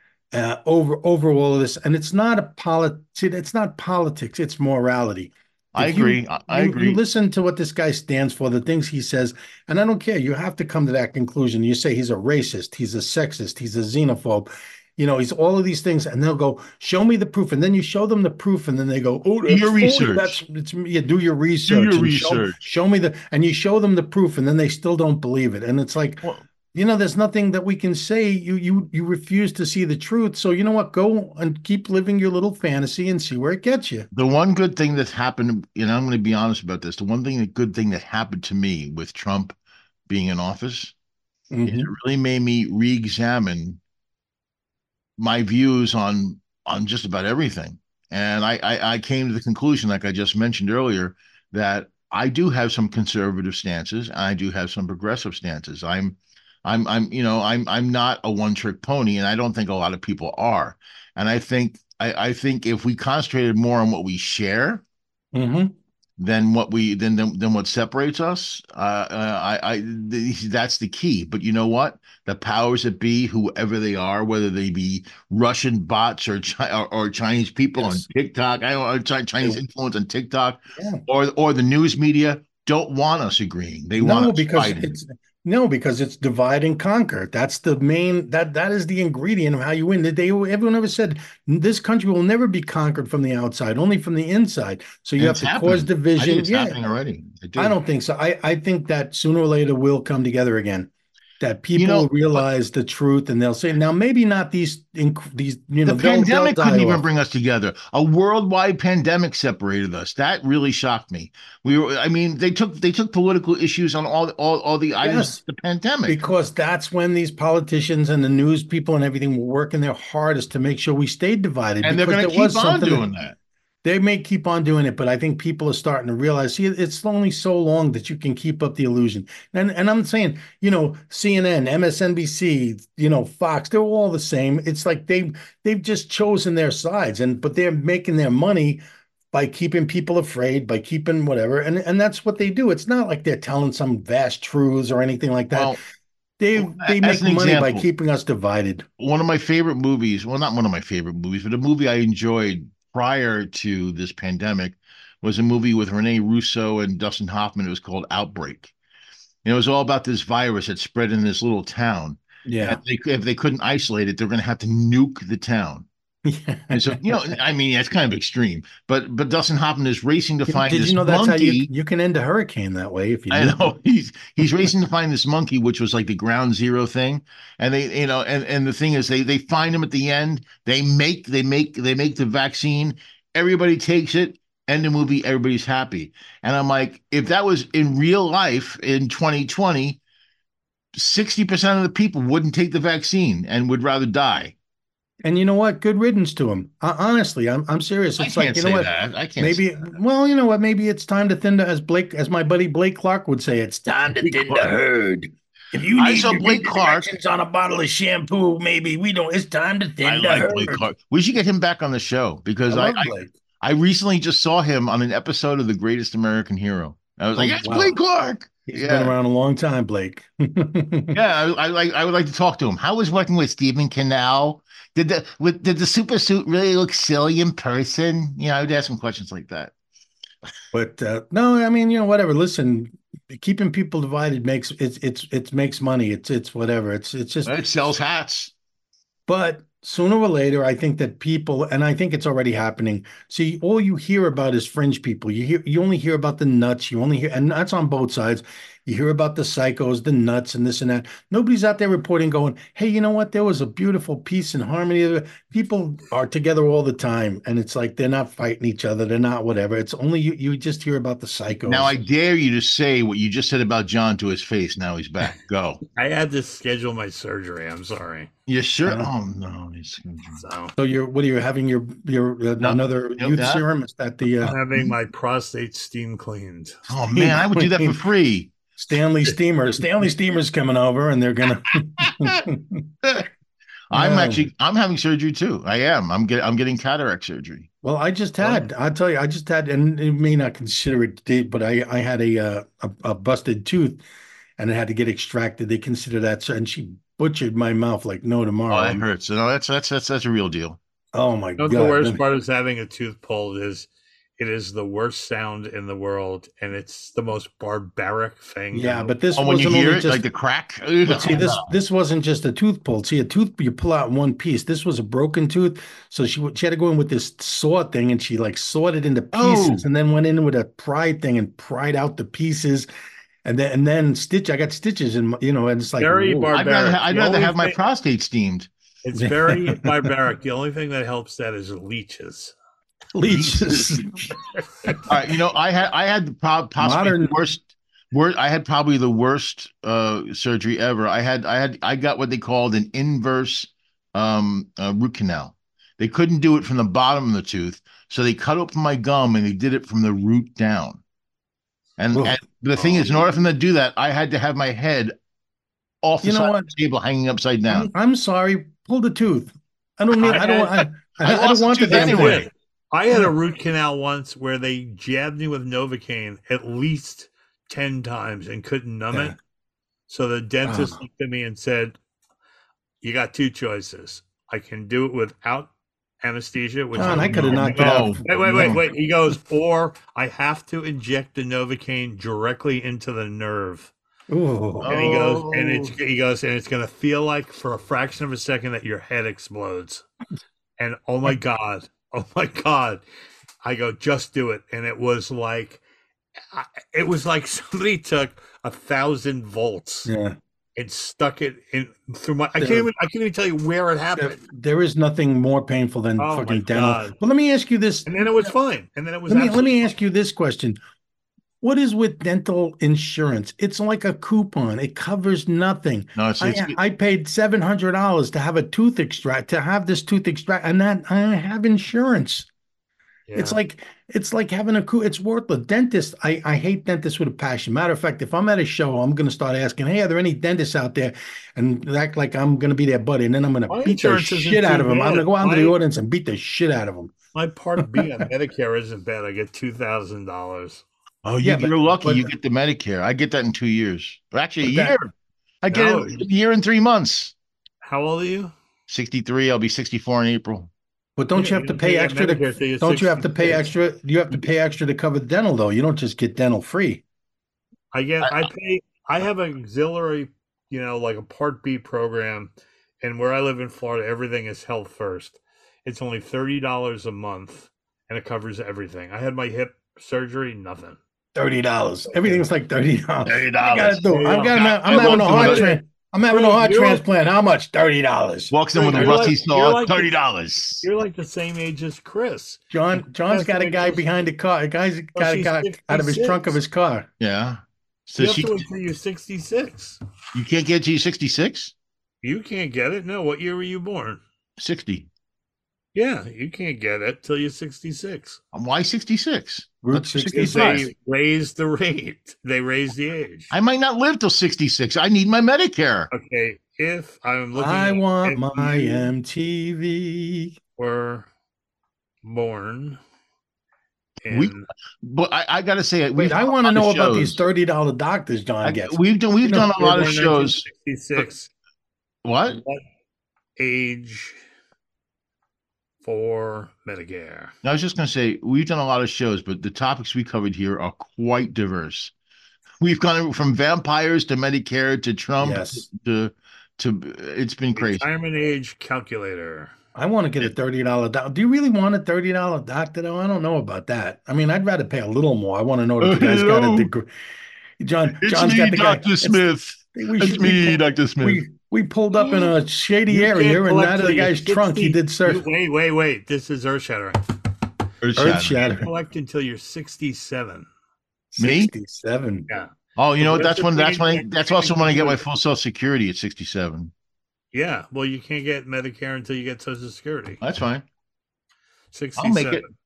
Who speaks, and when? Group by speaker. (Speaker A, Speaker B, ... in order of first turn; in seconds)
Speaker A: 0.3-34.1, 41.5-41.9, 65.3-65.7, 77.8-78.1, 80.8-81.0, 84.0-96.8, 97.6-107.0, 115.0-115.4, 116.1-123.1, 123.8-145.8, 146.4-148.9, 162.5-162.8, 166.2-167.4, 170.5-173.8, 174.4-174.7, 195.2-210.9, 212.7-213.3, 217.4-218.0, 218.7-221.2, 230.7-237.6, 239.3-261.9, 268.9-269.1, 270.8-274.6, 277.1-278.0, 278.8-282.9, 283.9-284.5, 287.8-294.0, 294.6-299.1, 301.1-302.2, 308.7-310.2, 311.1-322.9, 323.4-326.6, 329.2-330.1, 333.1-335.2, 336.8-337.4, 352.1-352.4, 356.2-356.7, 357.7-362.5, 369.1-369.4, 370.6-371.0, 376.9-378.2, 384.3-385.0, 400.1-400.4, 402.6-402.9, 404.1-408.1, 409.3-410.8, 411.6-422.5, 423.4-437.1, 437.8-438.2, 441.4-442.3, 444.6-445.0, 451.2-457.0, 471.4-479.4, 482.7-487.1, 499.8-500.7, 507.6-510.6, 516.2-519.7, 535.4-535.9, 540.0-547.1, 547.8-549.4, 549.9-555.5, 558.2-558.9, 561.3-562.5
Speaker B: 5.7-7.0, 19.5-20.4, 21.7-22.6, 34.1-39.5, 40.1-40.9, 41.6-43.8, 45.2-64.8, 66.2-85.0, 95.2-97.8, 101.8-102.4, 105.9-116.2, 121.8-123.4, 145.5-145.8, 146.6-147.9, 149.0-158.7, 159.4-165.9, 166.7-171.7, 173.3-190.0, 190.9-194.6, 198.2-199.6, 204.2-204.7, 206.0-207.1, 210.0-219.1, 221.1-229.7, 237.4-238.5, 261.7-265.8, 268.5-270.4, 272.6-273.6, 274.4-274.9, 276.9-278.5, 282.0-282.3, 283.9-287.7, 298.7-300.8, 309.4-311.7, 319.3-319.9, 326.5-328.7, 333.3-334.1, 335.1-351.0, 352.0-355.1, 356.0-357.9, 361.2-362.5, 377.0-378.8, 384.8-385.9, 416.2-416.8, 441.2-445.1, 445.6-447.3, 448.9-450.7, 473.2-475.7, 478.5-480.9, 487.2-488.6, 490.3-491.7, 494.6-495.1, 498.5-500.9, 503.5-506.1, 514.3-517.4, 518.6-520.7, 522.2-522.6, 527.6-532.1, 532.8-538.1, 546.0-546.9, 548.2-551.4, 558.0-558.7, 561.4-561.7, 563.0-566.9, 570.4-570.9, 572.2-572.7
Speaker C: 265.9-268.3, 270.4-270.7, 274.4-276.8, 301.6-309.1, 326.0-327.8, 329.0-332.5, 352.8-353.2, 360.2-360.7, 361.9-369.4, 370.1-372.0, 373.0-375.7, 376.2-383.9, 384.8-390.1, 390.8-393.0, 393.6-395.8, 396.5-400.1, 400.8-404.4, 406.2-407.2, 408.1-409.9, 423.3-423.6, 433.7-435.8, 437.4-440.8, 445.7-446.3, 447.8-448.5, 451.4-453.7, 457.9-471.0, 472.1-472.4, 474.1-477.0, 478.7-480.1, 480.8-482.6, 483.2-484.1, 485.1-486.6, 488.2-490.0, 492.2-494.2, 495.9-498.4, 500.3-503.5, 506.1-509.1, 510.8-511.3, 512.2-513.0, 514.2-514.7, 519.7-521.5, 522.5-522.8, 523.6-524.4, 526.0-527.5, 537.8-539.7, 552.1-552.5, 553.1-557.2, 558.5-560.7, 562.5-565.2, 567.5-570.4, 571.9-572.6